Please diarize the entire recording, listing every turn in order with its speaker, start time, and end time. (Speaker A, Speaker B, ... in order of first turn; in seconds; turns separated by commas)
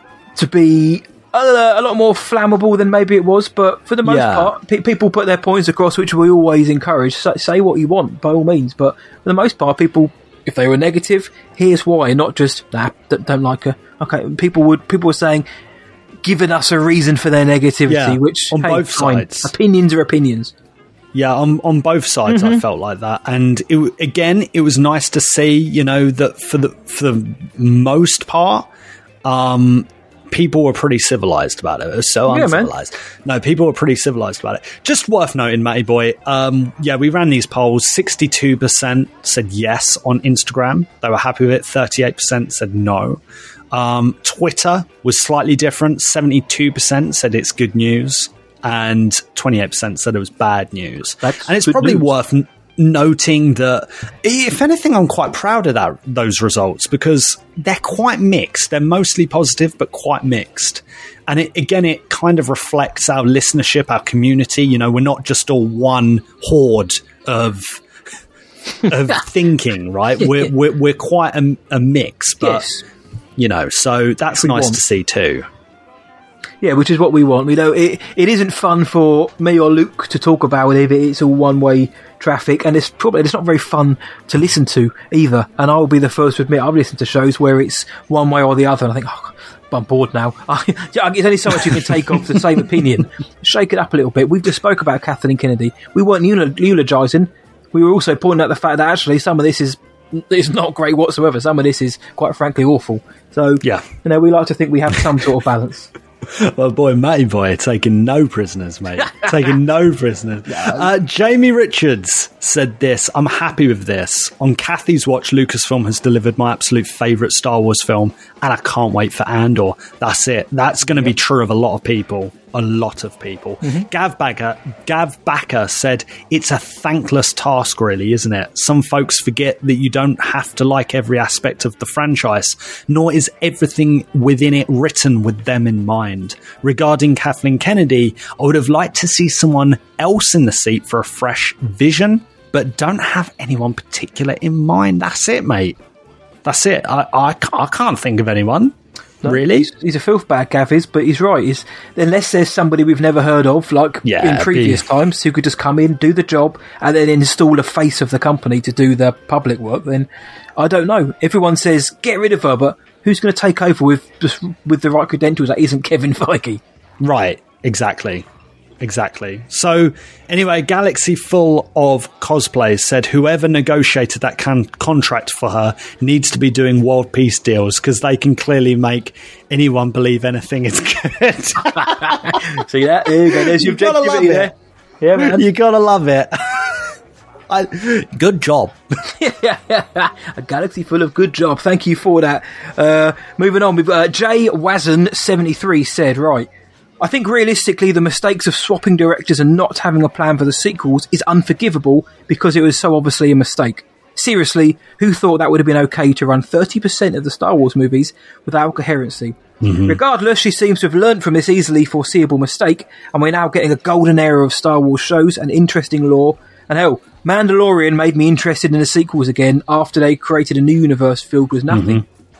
Speaker A: 0.3-15.4, Speaker B: 4.0-4.5, Speaker A: 16.2-20.5, Speaker B: 17.9-19.5, Speaker B: 21.1-28.7, Speaker A: 22.3-22.6, Speaker B: 29.2-67.8, Speaker A: 32.3-32.7, Speaker A: 51.2-52.0, Speaker B: 68.8-72.7, Speaker A: 72.4-72.8, Speaker B: 73.4-75.5, Speaker A: 74.4-74.8, Speaker A: 76.6-105.9, Speaker B: 103.6-103.9, Speaker B: 106.2-145.8, Speaker A: 110.5-110.9, Speaker B: 146.4-149.7, Speaker A: 149.2-166.6, Speaker B: 154.0-154.8, Speaker B: 167.0-168.2, Speaker B: 168.8-182.5, Speaker A: 181.7-185.4, Speaker B: 183.2-184.5, Speaker B: 185.2-186.9, Speaker B: 187.5-188.8, Speaker A: 189.1-196.5, Speaker A: 197.0-222.0, Speaker B: 209.6-210.0, Speaker B: 221.7-222.0